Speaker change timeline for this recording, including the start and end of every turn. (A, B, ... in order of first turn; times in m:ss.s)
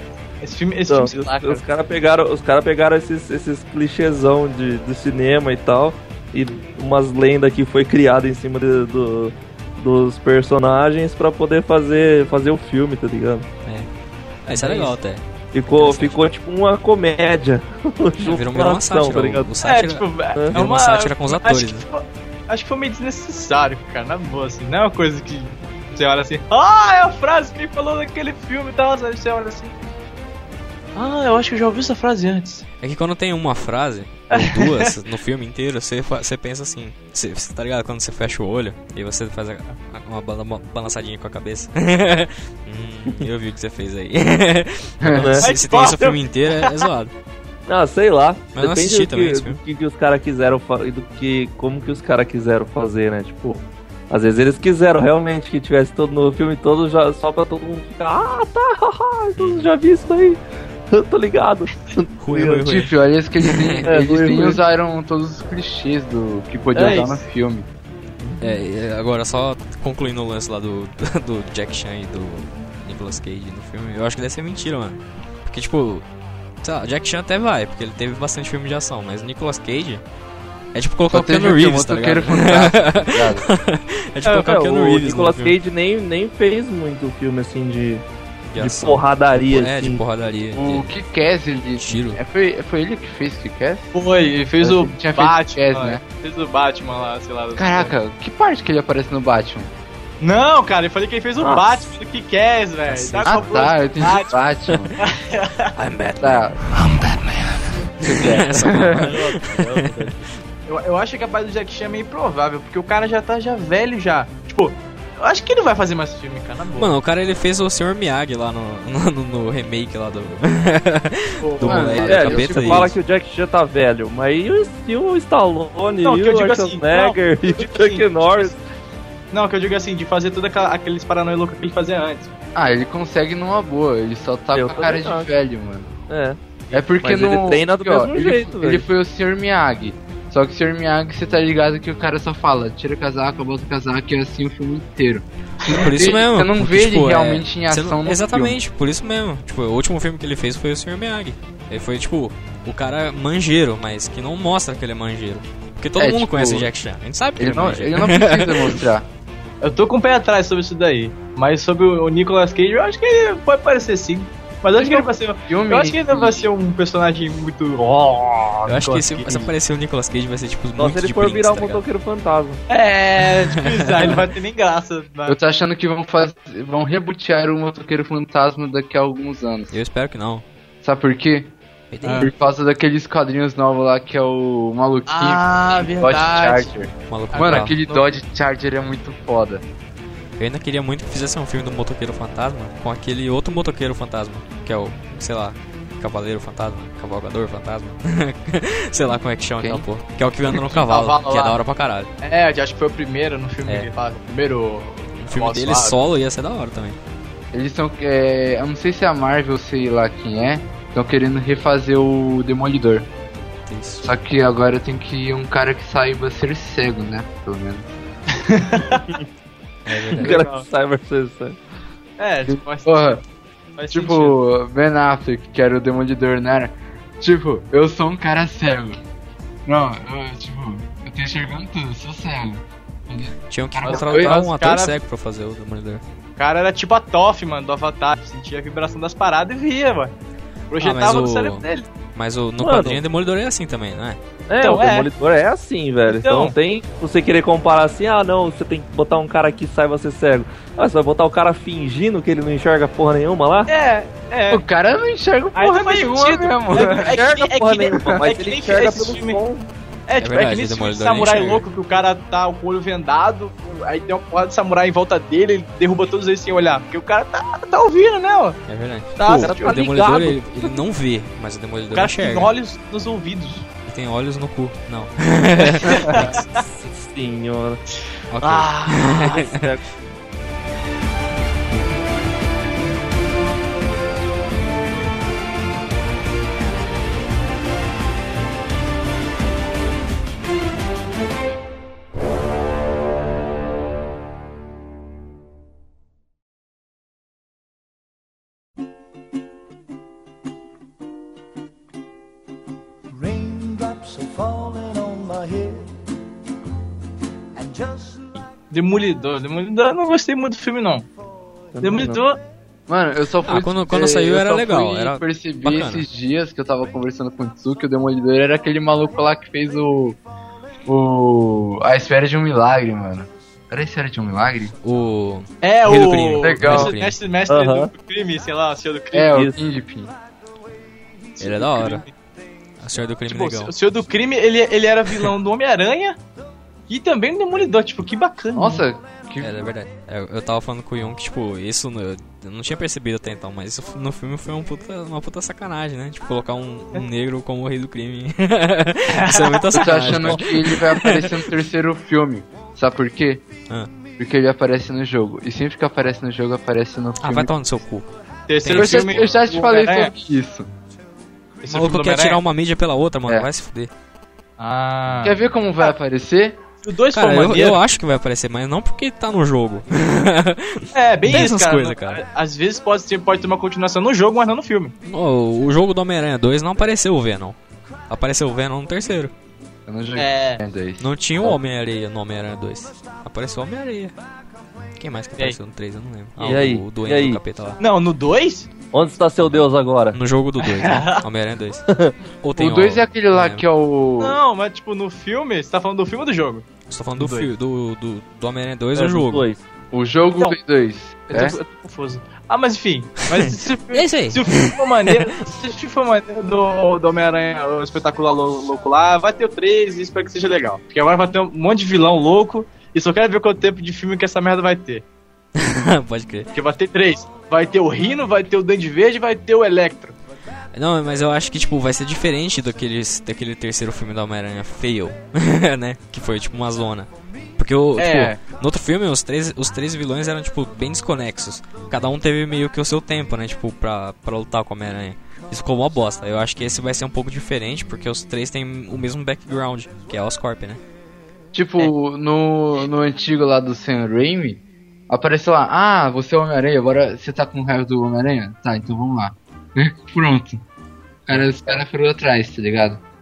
0:00.4-0:01.6 A
0:00.9-0:13.5 B
0:14.5-0:15.0 A
0:14.5-0:16.2 C
0:15.5-0:19.5 B
0:18.2-0:21.9 C
0:19.6-0:29.8 A
0:20.4-0:20.6 B
0:31.0-0:32.6 A
0:32.8-0:47.1 C
0:34.3-0:34.9 A
0:45.0-0:45.3 D
0:45.1-0:45.5 B
0:45.4-0:46.9 A
0:47.7-1:02.7 B
0:48.6-0:49.6 C
0:59.4-0:59.7 C
1:02.2-1:04.3 C
1:02.5-1:07.7 D
1:03.8-1:04.6 B
1:06.8-1:07.2 A
1:08.2-1:08.6 B
1:08.4-1:16.1 C
1:16.6-1:20.0 C
1:20.7-1:25.6 C
1:21.1-1:23.5 D
1:24.2-1:28.0 B
1:28.5-1:30.9 C
1:28.6-1:30.0 B
1:30.5-1:33.9 D
1:31.8-1:32.2 C
1:34.0-1:38.0 A
1:34.6-1:36.0 D
1:37.6-1:39.7 D
1:40.2-1:44.4 A
1:41.4-1:41.8 B
1:42.9-1:43.4 C
1:43.2-1:45.0 D
1:45.0-1:45.7 A
1:45.8-1:47.3 C
1:46.2-1:46.6 D
1:48.0-1:50.3 C
1:48.0-1:49.2 D
1:49.3-1:50.1 B
1:50.7-1:57.0 A
1:56.8-2:03.0 C
2:01.4-2:02.0 A
2:01.6-2:02.9 D
2:02.0-2:08.6 B
2:06.0-2:08.5 A
2:09.3-2:12.3 A
2:12.6-2:16.0 D
2:14.5-2:15.3 B
2:16.1-2:16.4 B
2:16.7-2:28.6 D
2:17.0-2:18.9 B
2:25.7-2:38.8 C
2:36.0-2:36.7 D
2:37.4-2:39.1 D
2:39.6-2:49.5 A
2:44.8-2:46.5 D
2:48.7-2:51.8 C
2:50.8-2:52.6 B
2:52.7-2:55.4 A
2:53.2-2:54.3 C
2:55.3-2:59.8 D
2:59.7-3:00.4 C
3:00.8-3:01.5 D
3:01.9-3:02.3 C
3:02.0-3:02.3 A
3:02.2-3:09.6 D
3:05.1-3:06.7 A
3:07.1-3:07.8 C
3:07.3-3:08.1 A
3:10.4-3:22.1 C
3:19.6-3:19.9 D
3:20.5-3:21.6 A
3:22.2-3:26.0 A
3:23.6-3:23.9 C
3:25.2-3:27.0 C
3:27.5-3:33.1 D
3:33.7-3:34.1 C
3:34.0-3:37.9 D
3:38.4-3:39.0 A
3:39.9-3:40.4 C
3:40.2-3:41.6 B
3:40.2-3:40.7 A
3:42.2-3:43.2 A
3:42.5-3:43.2 D
3:43.8-3:44.4 A
3:43.9-3:49.0 D
3:49.7-3:54.4 D
3:53.5-3:56.0 C
3:53.8-3:55.0 A
3:56.4-4:00.1 A
4:00.7-4:01.9 A
4:00.8-4:04.2 C
4:02.6-4:03.0 B
4:04.5-4:13.7 B
4:04.6-4:05.1 A
4:06.1-4:06.5 A
4:13.7-4:14.6 A
4:14.5-4:17.2 D
4:15.6-4:19.4 A
4:16.8-4:19.7 B
4:20.1-4:28.6 A
4:20.2-4:21.7 C
4:28.7-4:32.5 C
4:29.2-4:29.8 A
4:29.3-4:30.4 B
4:31.9-4:33.7 A
4:33.9-4:36.4 C
4:35.7-4:36.5 A
4:36.8-4:37.8 B
4:38.3-4:39.6 C
4:38.4-4:39.4 A
4:39.1-4:39.8 B
5:03.1-5:05.9 E
5:07.6-5:08.2 E
5:08.7-5:11.1 A
5:11.7-5:12.2 B
5:11.8-5:12.4 A
5:12.9-5:20.2 D
5:13.4-5:16.1 C
5:20.9-5:24.8 D
5:24.8-5:27.2 C
5:25.6-5:29.4 A
5:25.9-5:27.0 D
5:27.5-5:27.9 B
5:29.1-5:30.1 D
5:29.3-5:29.6 B
5:31.4-5:32.1 C
5:31.4-5:32.1 A
5:32.8-5:33.7 C
5:33.3-5:36.2 A
5:36.9-5:38.8 A
5:38.5-5:39.7 D
5:39.4-5:51.5 C
5:49.1-5:50.4 A
5:49.7-5:53.4 D
5:54.2-5:57.5 D
5:57.2-5:59.4 C
5:58.5-6:00.1 A
5:58.7-6:00.7 D
6:01.6-6:02.4 A
6:01.7-6:03.9 C
6:04.6-6:05.9 A
6:05.2-6:06.6 D
6:06.8-6:07.8 A
6:07.1-6:12.2 C
6:10.9-6:15.0 A
6:15.0-6:17.6 C
6:18.1-6:19.3 C
6:19.9-6:21.5 D
6:20.2-6:20.6 A
6:21.0-6:24.2 C
6:25.0-6:27.8 C
6:26.4-6:27.4 B
6:27.8-6:28.7 A
6:28.9-6:30.2 B
6:29.4-6:31.9 C
6:30.6-6:31.2 A
6:31.9-6:32.2 B
6:32.4-6:33.6 C
6:32.6-6:34.4 D
6:34.2-6:37.5 A
6:36.9-6:39.5 C
6:39.0-6:39.6 B
6:39.9-6:41.6 D
6:41.3-6:55.0 A
6:43.4-6:45.3 C
6:55.6-6:56.5 C
6:56.5-7:00.2 A
7:00.7-7:20.8 C
7:08.0-7:08.4 A
7:21.5-7:30.6 D
7:31.3-7:33.0 D